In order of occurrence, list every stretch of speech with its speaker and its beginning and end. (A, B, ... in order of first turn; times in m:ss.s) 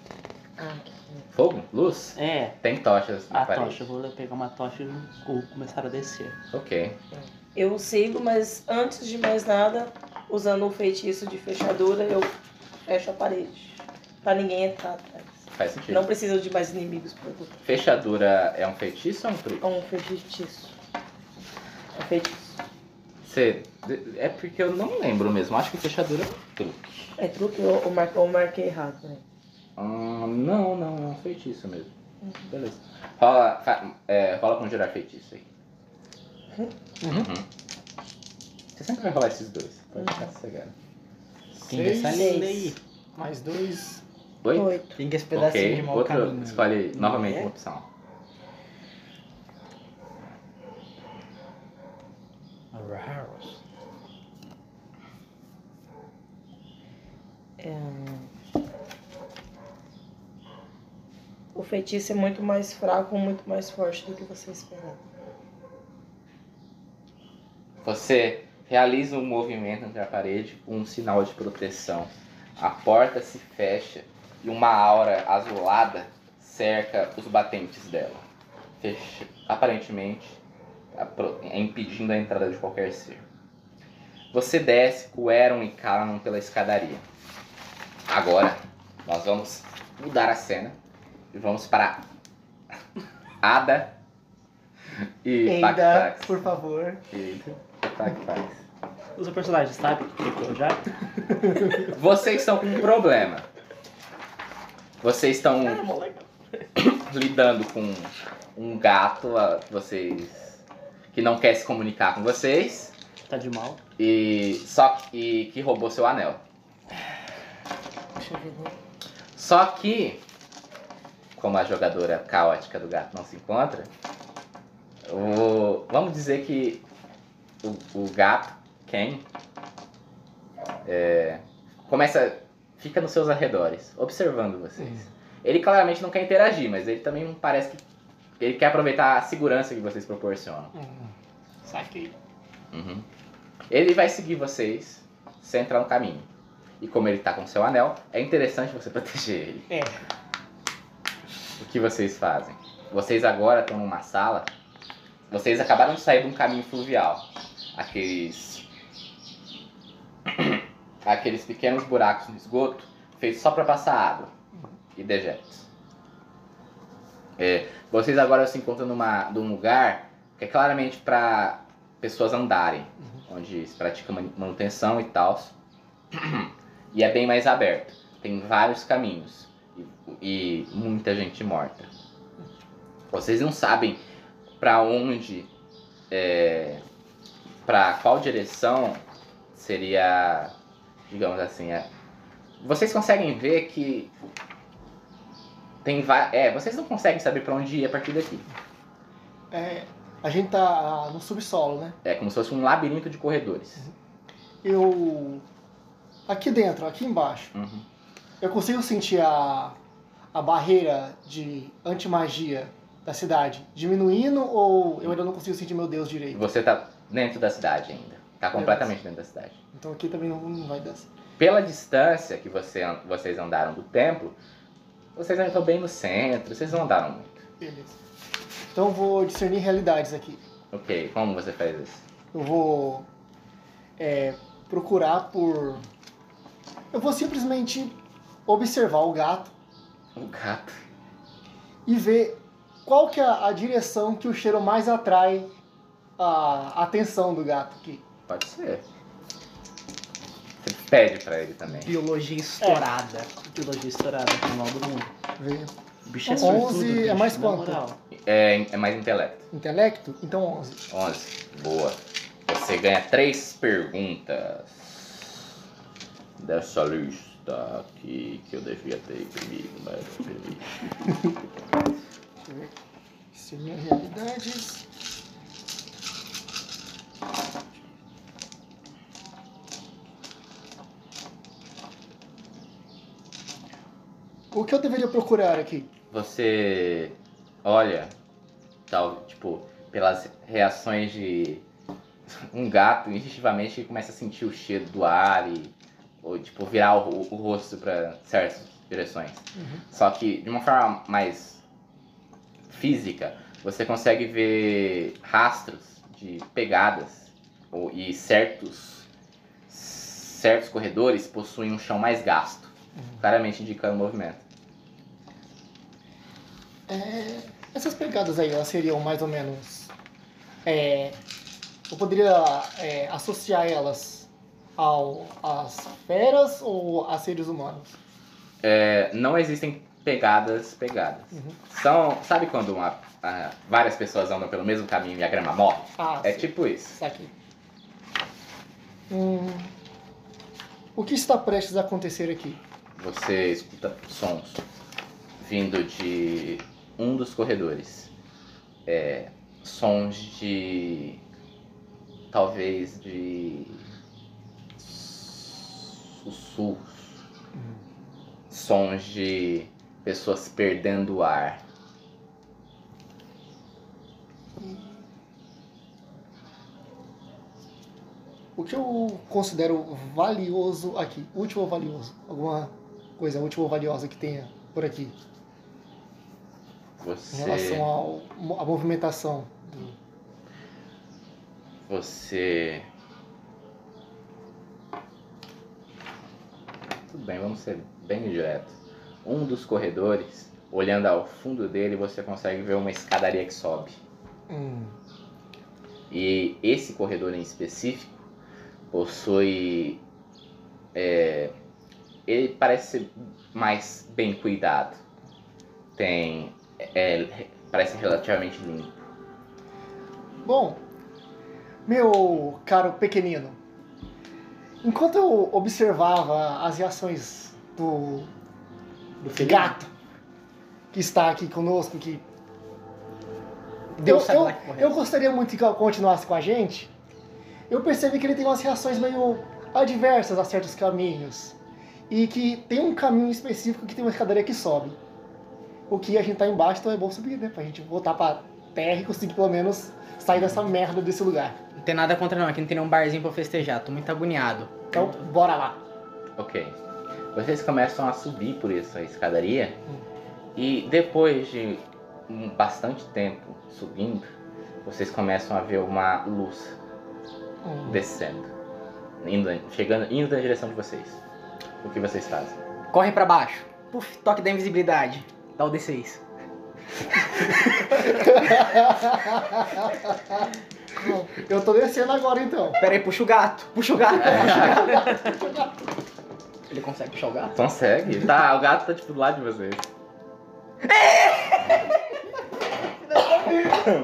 0:00.6-0:01.2 A
0:01.3-0:03.8 B
0:02.2-0:02.6 C
0:03.3-0:06.4 C
0:06.5-0:07.0 B
0:07.1-0:12.3 A
0:12.8-0:17.6 A
0:15.5-0:16.1 B
0:17.6-0:19.6 B
0:19.6-0:20.7 A
0:21.9-0:22.6 A
0:23.2-0:27.1 B
0:27.2-0:29.2 A
0:29.8-0:31.9 B
0:32.5-0:35.4 B
0:37.0-0:37.4 B
0:38.8-0:40.7 B
0:41.6-0:42.4 D
0:41.6-0:42.8 E
0:42.0-0:42.7 A
0:43.2-0:44.0 D
0:44.4-0:44.8 B
0:44.5-0:45.0 A
0:45.0-0:47.5 E
0:45.3-0:47.8 B
0:52.7-0:53.6 E
0:57.6-0:58.3 A
1:01.5-1:05.0 A
1:07.8-1:18.2 B
1:18.8-1:20.4 B
1:20.9-1:23.2 B
1:24.3-1:27.0 B
1:28.1-1:30.8 B
1:31.3-1:32.0 B
1:33.4-1:34.0 B
1:35.2-1:36.3 B
1:35.4-1:37.0 D
1:37.1-1:38.6 B
1:39.2-1:40.8 C
1:41.7-1:43.5 B
1:45.0-1:45.9 B
1:45.6-1:46.2 A
1:46.8-1:50.6 B
1:51.1-1:52.9 B
1:53.3-1:53.8 C
1:54.0-1:56.4 B
1:58.2-1:58.7 A
1:59.4-2:00.2 B
2:01.4-2:03.9 B
2:05.1-2:06.8 B
2:07.6-2:09.2 B
2:10.8-2:17.8 B
2:18.4-2:20.7 B
2:20.7-2:21.1 D
2:21.6-2:22.1 D
2:22.7-2:23.0 B
2:23.7-2:26.3 B
2:26.8-2:29.7 B
2:29.7-2:29.9 D
2:31.6-2:34.5 B
2:35.3-2:38.6 B
2:40.3-2:44.3 B
2:45.0-2:45.6 B
2:47.4-2:55.5 B
2:56.1-3:01.9 B
3:03.1-3:04.0 B
3:04.6-3:05.5 B
3:06.1-3:06.8 B
3:07.6-3:10.5 B
3:11.1-3:11.9 B
3:12.6-3:14.1 B
3:15.8-3:18.5 B
3:19.5-3:22.0 D
3:22.0-3:23.8 B
3:24.6-3:25.4 D
3:26.3-3:27.5 D
3:27.5-3:27.8 B
3:28.4-3:29.8 D
3:30.3-3:36.4 D
3:36.3-3:39.6 B
3:38.6-3:38.9 D
3:39.7-3:41.1 D
3:41.4-3:44.4 B
3:45.2-3:47.4 B
3:47.6-3:47.9 D
3:48.7-3:50.4 D
3:50.7-3:52.0 B
3:52.3-3:53.0 D
3:54.0-3:55.8 D
3:56.9-3:59.5 D
4:00.2-4:00.8 B
4:01.8-4:05.5 D
4:06.2-4:08.0 D
4:08.3-4:08.8 B
4:10.6-4:11.9 B
4:11.8-4:13.3 E
4:13.4-4:15.1 C
4:15.4-4:15.7 D
4:16.1-4:18.0 C
4:16.2-4:17.8 D
4:18.1-4:19.4 B
4:19.5-4:20.8 D
4:20.9-4:25.4 B
4:26.4-4:30.6 B
4:32.4-4:32.7 D
4:33.3-4:34.8 D
4:44.5-4:45.9 D
4:46.1-4:48.1 B
4:48.9-4:51.6 B
4:52.3-5:01.6 B
5:02.7-5:09.1 B
5:09.7-5:14.4 B
5:16.9-5:19.9 D
5:20.6-5:21.2 D
5:21.9-5:27.9 D
5:28.6-5:37.0 B
5:36.0-5:37.3 D
5:39.1-5:39.7 D
5:41.0-5:42.6 D
5:43.0-5:44.6 B
5:45.4-5:48.1 B
5:48.8-5:51.2 B
5:52.3-5:53.8 B
5:54.8-5:57.1 B
5:58.5-6:01.6 B
6:04.6-6:05.0 D
6:08.6-6:15.1 D
6:17.0-6:17.9 B
6:17.3-6:19.9 D
6:21.9-6:22.9 B
6:27.1-6:34.0 B
6:34.5-6:34.9 D
6:36.1-6:38.2 B
6:38.9-6:40.0 B
6:40.9-6:41.5 B
6:42.3-6:45.0 B
6:46.0-6:49.0 B
6:50.4-6:50.8 D
6:51.8-6:53.6 D
6:54.8-6:58.3 D
6:59.2-6:59.7 C
6:59.3-6:59.9 D
7:00.9-7:02.2 D
7:03.9-7:05.0 E
7:04.0-7:06.9 D
7:07.7-7:11.6 D
7:12.1-7:15.0 D
7:15.9-7:21.6 D
7:21.8-7:24.7 E
7:24.9-7:25.8 D
7:26.4-7:26.8 B
7:27.3-7:29.8 B
7:30.6-7:34.3 B
7:34.8-7:36.8 B
7:37.6-7:37.9 D
7:37.8-7:38.5 B
7:39.2-7:41.2 B
7:41.8-7:42.6 B
7:42.9-7:46.2 E
7:48.1-7:50.2 D
7:51.0-7:52.8 D
7:52.8-7:55.2 E
7:54.2-7:55.0 B
7:54.5-7:55.4 D
7:56.7-7:57.5 E
7:57.5-7:59.9 B
8:00.9-8:01.7 E
8:03.2-8:03.7 A